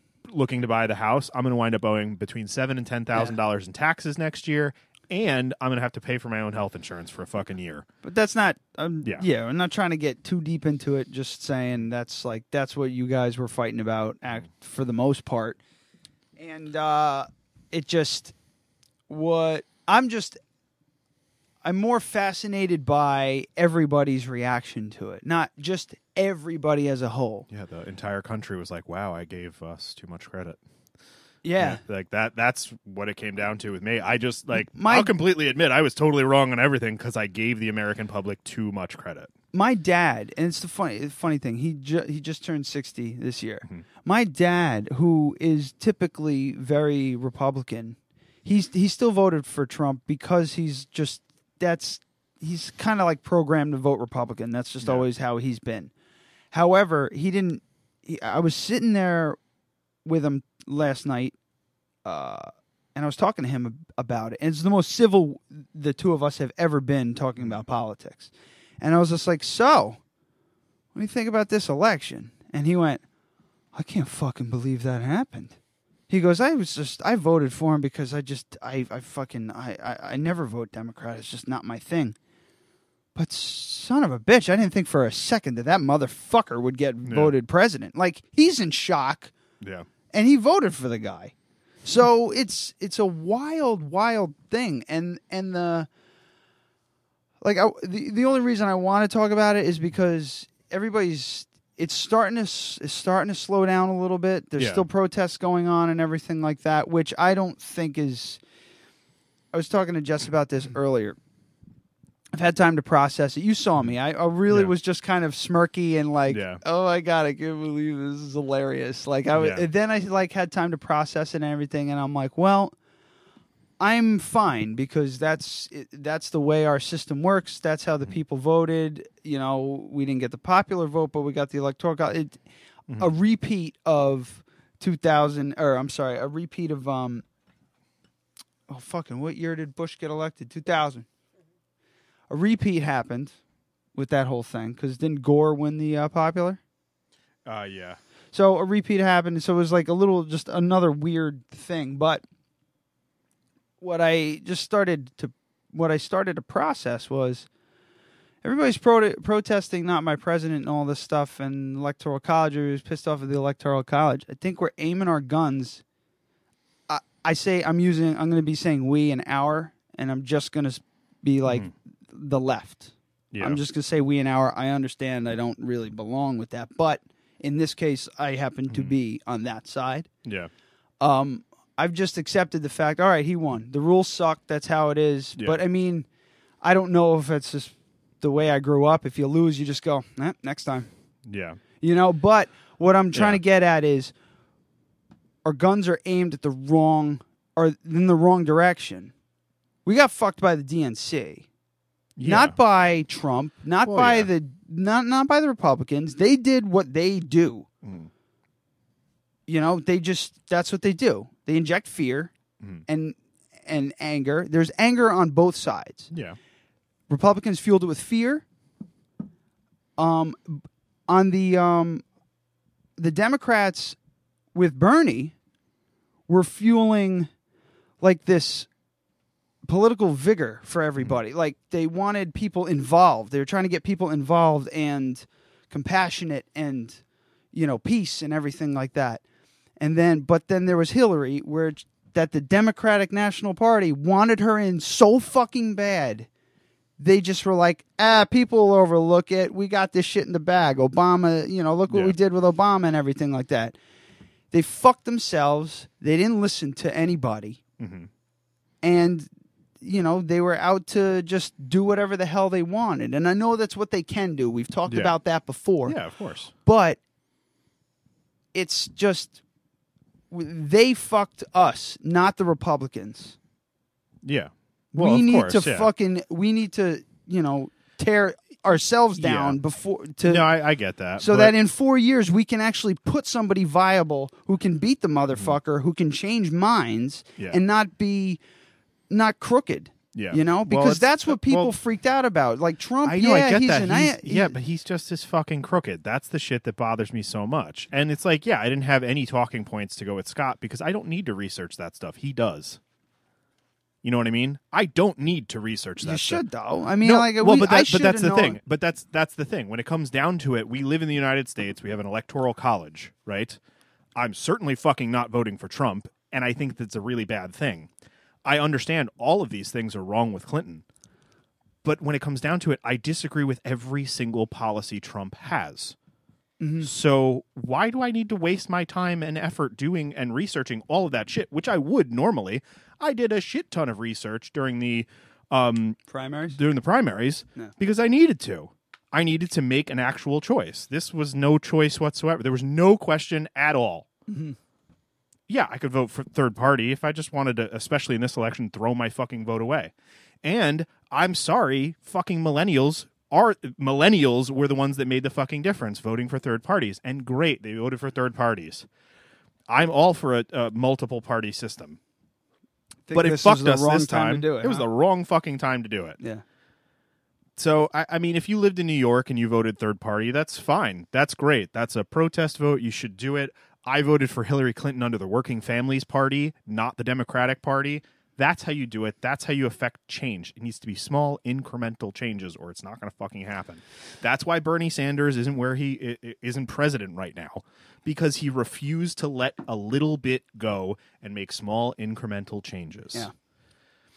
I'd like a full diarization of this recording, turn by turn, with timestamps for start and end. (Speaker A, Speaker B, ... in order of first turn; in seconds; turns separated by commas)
Speaker A: 0.3-7.9, Speaker B: 8.0-15.6, Speaker B: 16.4-18.4, Speaker B: 19.1-20.4, Speaker B: 21.6-27.5, Speaker A: 27.5-30.6, Speaker B: 31.4-31.8, Speaker A: 31.6-39.3, Speaker B: 34.7-35.1, Speaker B: 39.5-55.9, Speaker A: 54.8-55.1, Speaker B: 56.5-59.4, Speaker B: 60.0-61.4, Speaker B: 62.0-70.0, Speaker B: 71.0-73.0, Speaker B: 73.7-75.6, Speaker B: 76.1-82.2, Speaker B: 83.2-89.3, Speaker A: 87.0-87.3, Speaker A: 89.6-89.9, Speaker B: 90.1-95.9, Speaker B: 97.4-108.4, Speaker A: 104.6-104.9, Speaker B: 109.5-111.2, Speaker B: 112.3-122.8, Speaker A: 116.3-116.6, Speaker A: 119.3-119.7, Speaker B: 123.8-132.4, Speaker B: 133.0-137.2, Speaker B: 138.7-141.1, Speaker B: 142.3-143.3, Speaker B: 143.9-146.6, Speaker A: 147.5-148.0, Speaker B: 148.3-152.2, Speaker B: 153.8-157.5, Speaker B: 158.4-165.8, Speaker B: 166.9-180.1, Speaker A: 173.3-173.6, Speaker A: 178.7-179.0, Speaker A: 180.2-180.5, Speaker B: 181.0-186.1, Speaker B: 186.6-190.9, Speaker A: 191.3-191.6, Speaker B: 191.8-194.1, Speaker A: 193.1-193.4, Speaker B: 195.4-199.1, Speaker B: 199.8-201.5, Speaker A: 202.2-202.6, Speaker B: 202.2-207.7, Speaker A: 203.8-204.3, Speaker A: 207.8-208.1, Speaker B: 209.5-212.3, Speaker B: 212.9-216.1, Speaker A: 216.1-216.4, Speaker B: 217.1-218.4, Speaker B: 220.0-222.0, Speaker B: 223.0-224.0, Speaker B: 224.6-225.3, Speaker B: 226.3-227.3, Speaker B: 228.0-228.7, Speaker B: 229.7-237.0, Speaker B: 237.5-239.2, Speaker B: 239.8-246.3, Speaker B: 247.0-253.8, Speaker A: 251.9-252.2, Speaker B: 254.5-257.6, Speaker A: 257.8-258.1, Speaker B: 258.8-259.3, Speaker B: 259.8-266.0, Speaker A: 264.9-265.2, Speaker A: 265.8-266.5, Speaker B: 266.6-267.0, Speaker B: 268.5-269.4, Speaker B: 270.3-273.4, Speaker A: 274.2-275.9, Speaker B: 274.9-280.4, Speaker A: 279.2-279.6, Speaker A: 280.2-281.6, Speaker B: 281.2-288.4, Speaker B: 289.1-294.6, Speaker A: 290.1-291.7, Speaker A: 293.0-302.8, Speaker A: 304.0-306.4, Speaker B: 306.0-308.6, Speaker A: 307.0-313.6, Speaker A: 314.2-317.9, Speaker A: 318.4-320.8, Speaker A: 321.8-325.9, Speaker B: 326.6-326.9, Speaker A: 326.8-344.1, Speaker B: 336.1-336.6, Speaker B: 344.3-344.6, Speaker A: 345.5-349.9, Speaker A: 350.4-358.9, Speaker A: 359.7-362.0, Speaker B: 363.1-364.9, Speaker A: 363.1-366.2, Speaker A: 367.6-393.3